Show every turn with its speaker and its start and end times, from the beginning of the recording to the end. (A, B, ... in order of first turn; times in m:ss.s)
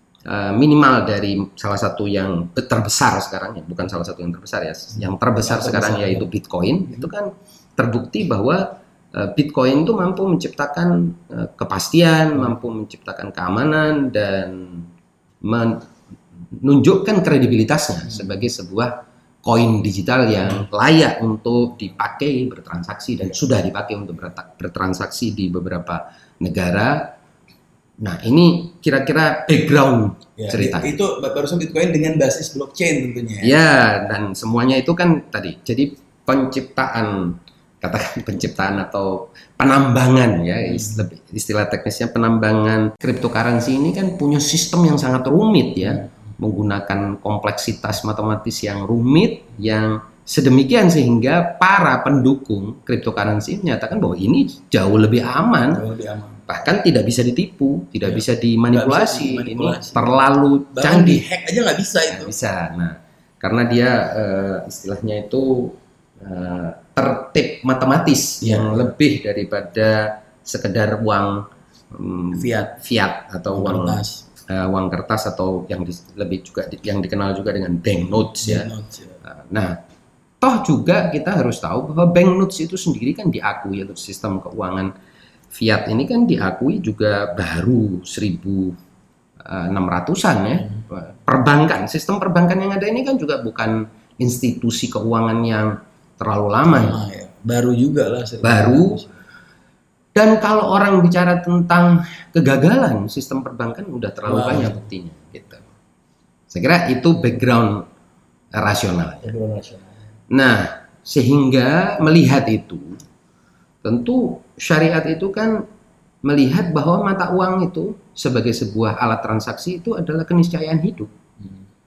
0:00.2-0:14.9 A
0:05.4-0:06.3 B
0:15.4-0:15.9 A
0:16.5-0:27.1 A
0:28.0-0:31.0 A
0:30.4-0:33.5 B
0:33.4-0:55.8 A
0:40.7-0:41.0 B
0:55.7-0:56.4 B
0:56.5-1:01.2 A
0:58.1-1:00.2 B
1:00.8-1:02.3 B
1:02.1-1:18.7 A
1:08.4-1:08.9 B
1:12.3-1:12.8 B
1:13.5-1:14.2 B
1:18.4-1:19.2 B
1:19.2-1:19.8 A
1:20.4-1:24.9 A
1:25.5-1:28.8 A
1:29.4-1:37.0 A
1:36.7-1:39.1 B
1:38.4-1:39.0 A
1:40.1-1:45.6 A
1:44.2-1:44.9 B
1:46.5-1:47.9 A
1:48.6-1:49.3 A
1:49.2-1:49.9 B
1:50.3-1:53.0 A
1:53.8-1:55.6 A
1:56.2-2:01.1 A